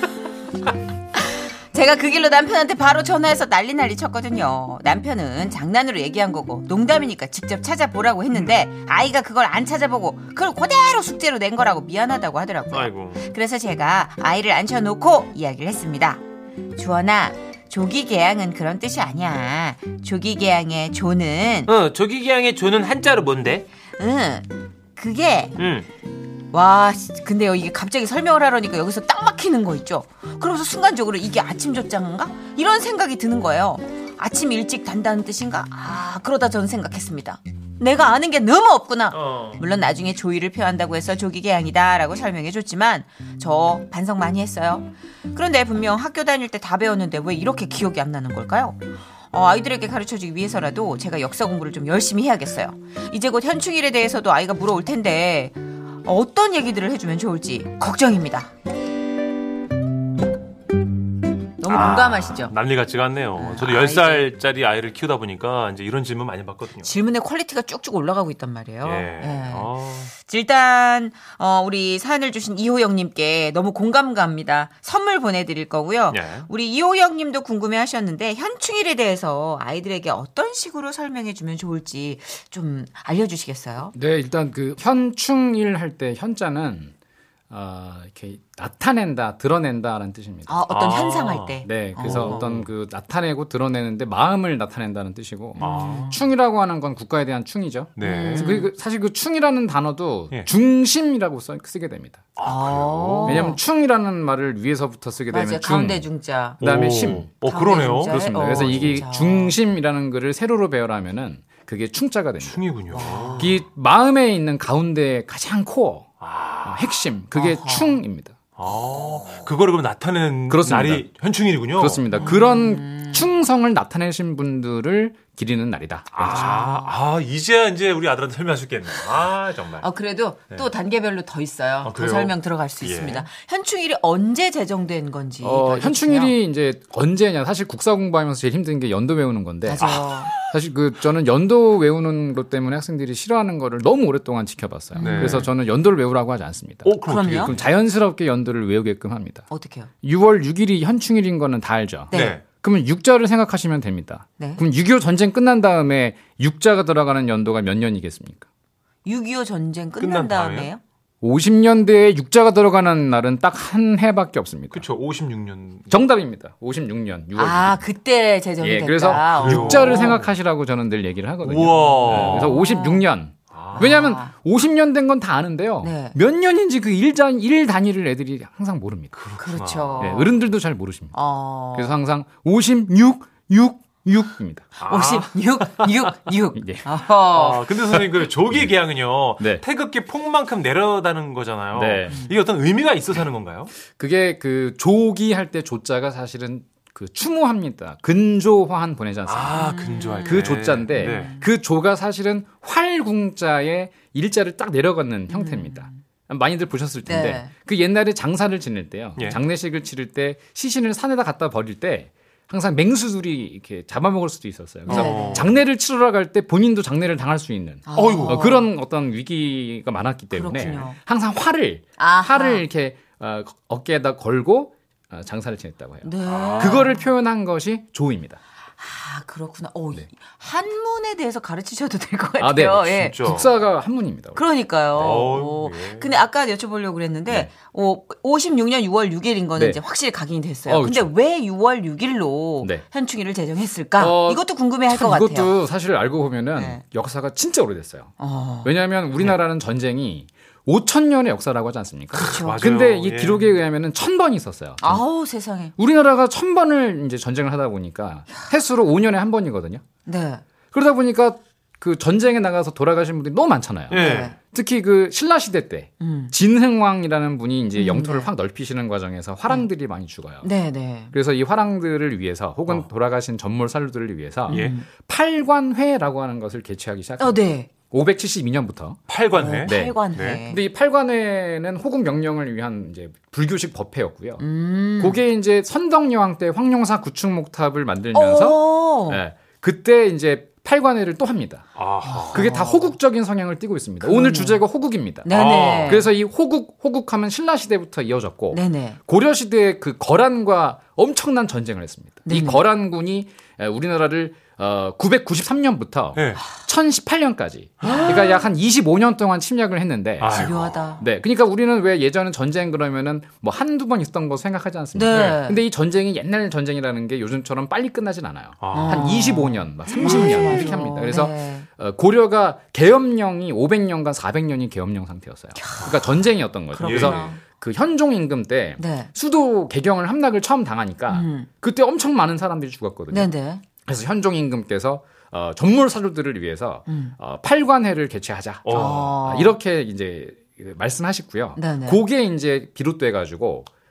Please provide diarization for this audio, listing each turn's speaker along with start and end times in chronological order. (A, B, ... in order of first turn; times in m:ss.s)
0:01.3-0:16.2 A
0:12.7-0:13.2 B
0:16.8-0:21.7 A
0:21.7-0:23.7 C
0:24.0-0:25.6 A
0:25.6-0:25.8 C
0:26.5-0:58.5 A
1:01.6-1:02.5 A
1:01.7-1:06.9 B
1:03.4-1:04.3 A
1:06.8-1:24.0 A
1:08.8-1:10.1 B
1:16.1-1:16.5 B
1:23.9-1:26.9 D
1:27.5-1:30.6 D
1:30.5-1:32.4 A
1:30.7-1:32.7 B
1:31.6-1:42.3 D
1:35.6-1:36.1 A
1:35.6-1:36.1 B
1:38.0-1:38.5 B
1:38.0-1:38.7 A
1:42.4-1:43.6 B
1:42.4-1:43.6 A
1:43.2-1:46.0 D
1:45.3-1:46.6 A
1:46.6-1:47.3 D
1:46.6-1:49.0 B
1:47.5-1:49.6 A
1:48.0-1:56.1 D
1:52.4-1:53.6 B
1:52.9-1:53.6 A
1:56.2-1:56.9 B
1:56.6-1:58.4 D
1:57.3-1:58.0 A
1:58.6-2:02.0 B
2:00.5-2:01.1 D
2:01.8-2:06.5 D
2:02.1-2:03.3 A
2:06.2-2:09.9 B
2:06.3-2:07.0 A
2:09.8-2:16.4 A
2:11.8-2:13.3 B
2:15.4-2:29.4 D
2:19.6-2:20.3 A
2:19.8-2:20.2 B
2:24.9-2:25.5 A
2:25.0-2:25.5 B
2:26.8-2:27.7 B
2:27.1-2:27.5 A
2:29.5-2:29.9 A
2:30.0-2:38.5 D
2:32.1-2:32.4 A
2:32.1-2:32.4 B
2:39.0-2:40.8 A
2:40.0-2:40.7 B
2:41.2-2:44.9 D
2:44.7-2:46.0 B
2:45.9-2:47.8 D
2:47.4-2:50.2 A
2:48.6-2:59.2 D
2:49.3-2:50.3 B
2:51.4-2:52.5 B
2:51.9-2:53.1 A
2:53.5-2:53.9 B
2:53.7-2:54.3 A
2:55.8-2:56.2 A
2:59.1-3:00.1 B
2:59.4-3:00.4 A
3:00.0-3:01.1 D
3:01.1-3:01.9 A
3:01.7-3:04.7 D
3:04.8-3:07.7 A
3:04.8-3:05.3 B
3:06.6-3:06.8 D
3:07.3-3:13.7 B
3:11.7-3:12.3 D
3:13.9-3:48.4 D
3:19.3-3:21.3 B
3:19.6-3:21.4 A
3:25.3-3:26.0 A
3:27.1-3:27.5 A
3:34.9-3:35.5 A
3:34.9-3:35.5 B
3:37.9-3:38.6 A
3:38.0-3:38.6 B
3:40.3-3:41.0 A
3:42.0-3:42.6 A
3:46.0-3:47.0 A
3:46.3-3:46.9 B
3:48.8-3:53.2 A
3:52.4-3:54.4 D
3:53.0-3:53.5 B
3:54.4-4:05.5 A
3:54.9-3:56.1 B
3:55.0-3:55.3 D
4:00.7-4:01.1 D
4:04.0-4:08.1 D
4:06.6-4:06.8 A
4:08.2-4:08.7 A
4:08.6-4:15.0 D
4:12.1-4:12.6 A
4:12.4-4:13.5 B
4:14.8-4:15.8 A
4:15.8-4:19.8 D
4:20.1-4:20.4 A
4:20.7-4:30.5 D
4:23.9-4:24.3 B
4:23.9-4:24.4 A
4:26.0-4:26.3 A
4:27.7-4:28.3 A
4:30.4-4:31.1 A
4:31.1-4:39.0 D
4:34.5-4:34.9 A
4:37.2-4:37.7 A
4:39.1-4:40.4 B
4:39.3-4:40.6 A
4:39.6-4:44.4 D
4:44.4-4:45.2 A
4:45.0-4:51.7 D
4:48.1-4:49.2 A
4:51.8-4:52.4 B
4:52.0-4:53.0 A
4:52.3-5:33.3 D
4:54.0-4:54.6 A
4:55.2-4:56.1 A
4:55.3-4:56.0 B
4:58.5-4:59.0 A
5:02.3-5:02.6 A
5:06.2-5:06.4 B
5:07.8-5:08.4 A
5:07.8-5:08.2 B
5:10.2-5:10.9 B
5:10.3-5:11.0 A
5:15.0-5:15.6 A
5:15.1-5:15.4 B
5:18.6-5:19.1 B
5:18.7-5:21.7 A
5:20.0-5:20.7 B
5:25.6-5:26.1 A
5:26.7-5:27.4 A
5:26.8-5:27.3 B
5:28.8-5:29.1 A
5:31.1-5:31.5 A
5:33.1-5:33.6 A
5:33.8-5:43.7 D
5:36.9-5:37.2 A
5:38.6-5:39.1 B
5:38.7-5:39.6 A
5:41.6-5:42.0 A